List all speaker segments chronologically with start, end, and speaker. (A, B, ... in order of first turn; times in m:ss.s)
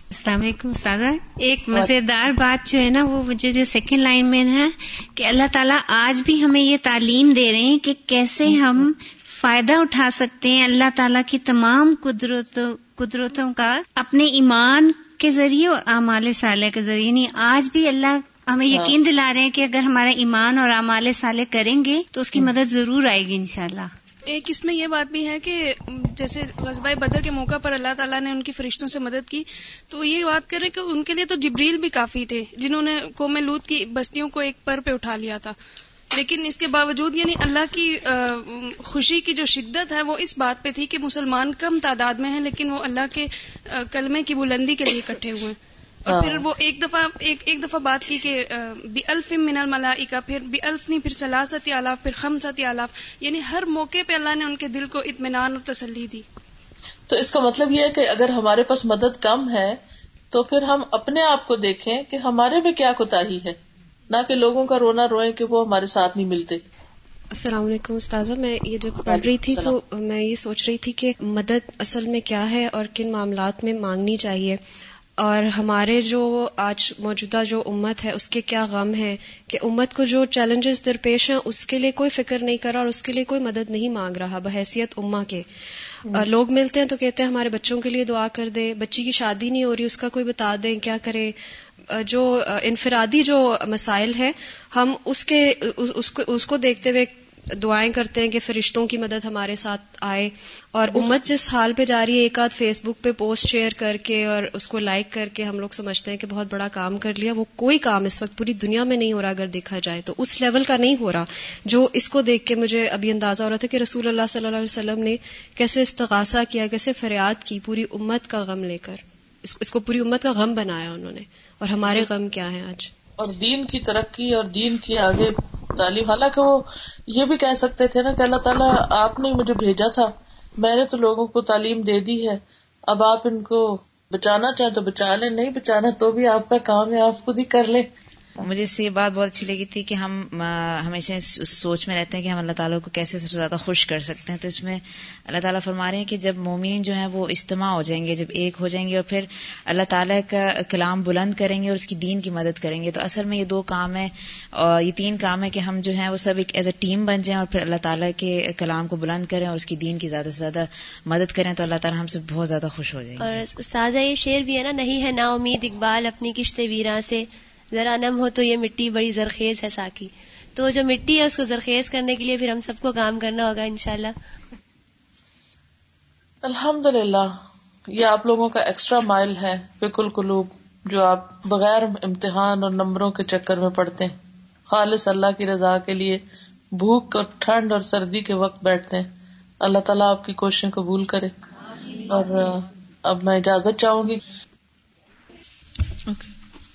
0:00.2-0:23.9 A
0:18.7-0:19.0 B
0:24.3-0:35.6 C
0:36.1-0:45.6 C
0:46.1-0:56.2 C
0:46.1-0:46.4 B
0:57.1-0:59.8 B
1:00.3-1:03.6 B
1:04.1-1:06.6 B
1:07.3-1:14.6 D
1:09.1-1:09.8 B
1:15.2-1:25.4 D
1:26.1-1:31.4 D
1:31.9-2:02.9 D
2:03.2-2:17.9 B
2:18.4-2:43.4 E
2:43.3-2:47.2 F
2:47.8-2:54.1 F
2:56.4-2:57.3 B
2:57.9-3:04.2 B
3:04.7-3:06.2 B
3:06.8-3:09.1 B
3:09.6-3:11.3 B
3:12.1-3:14.2 B
3:16.1-3:16.3 B